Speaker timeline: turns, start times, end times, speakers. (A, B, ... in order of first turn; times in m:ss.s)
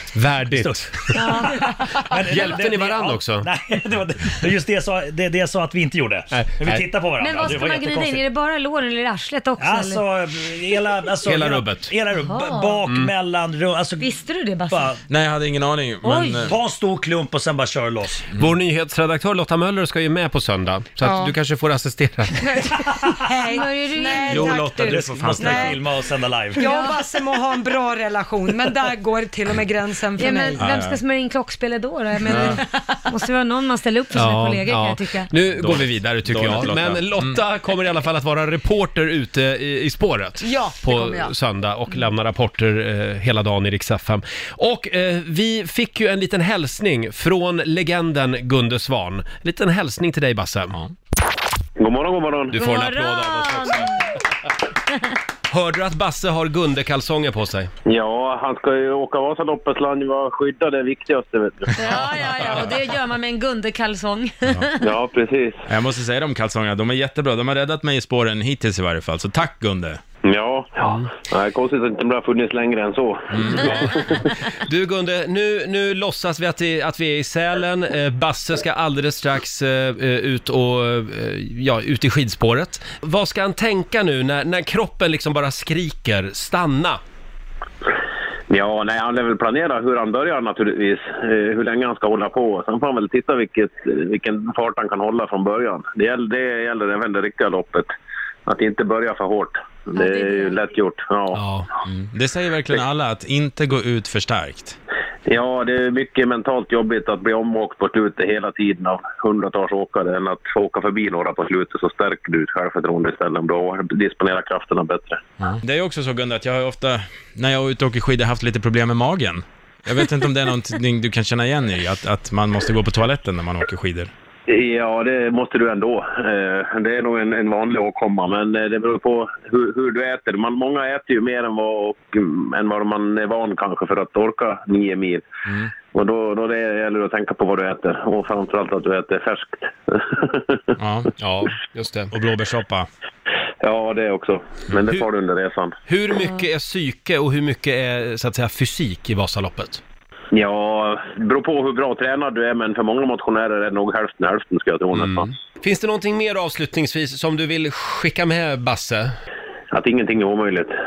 0:00.1-0:01.3 A
0:00.4-0:08.2 B
0:01.1-0:01.8 C
0:02.2-0:03.5 A
0:06.3-0:06.9 A
0:07.2-0:10.0 C
0:09.6-0:14.1 B
0:11.2-0:11.9 A
0:12.3-0:12.8 C
0:14.0-0:14.9 C
0:14.7-0:15.0 B
0:15.1-0:16.5 D
0:16.0-0:16.5 C
0:16.4-0:18.2 B
0:18.4-0:22.4 A
0:21.0-0:21.4 E
0:22.4-0:25.8 E
0:23.4-0:24.6 C
0:24.3-0:26.6 B
0:24.7-0:25.7 D
0:26.5-0:30.7 E
0:26.6-0:27.0 C
0:30.2-0:35.3 C
0:30.6-0:31.0 D
0:32.3-0:32.6 D
0:34.1-0:50.8 A
0:35.5-0:37.4 D
0:40.4-0:41.3 E
0:51.8-0:52.6 F
0:52.5-0:54.0 A
0:52.5-0:54.1 C
0:55.5-0:57.7 A
0:57.8-1:01.7 F
1:01.7-1:04.8 C
1:04.4-1:04.7 D
1:04.8-1:05.6 F
1:05.7-1:10.0 D
1:10.2-1:13.3 F
1:10.8-1:11.1 A
1:13.3-1:14.0 D
1:13.5-1:14.0 A
1:14.6-1:27.0 A
1:28.5-1:37.9 F
1:38.4-1:41.4 F
1:39.9-1:40.6 C
1:41.3-1:41.7 A
1:41.8-1:44.8 D
1:45.3-1:55.2 F
1:55.4-2:04.1 D
2:04.5-2:15.2 F
2:15.4-2:15.7 D
2:15.9-2:20.6 F
2:20.8-2:21.1 D
2:21.2-2:22.1 A
2:22.1-2:22.9 D
2:23.6-2:25.7 F
2:25.9-2:29.8 A
2:30.3-2:35.3 F
2:34.9-2:39.2 A
2:39.7-2:40.7 F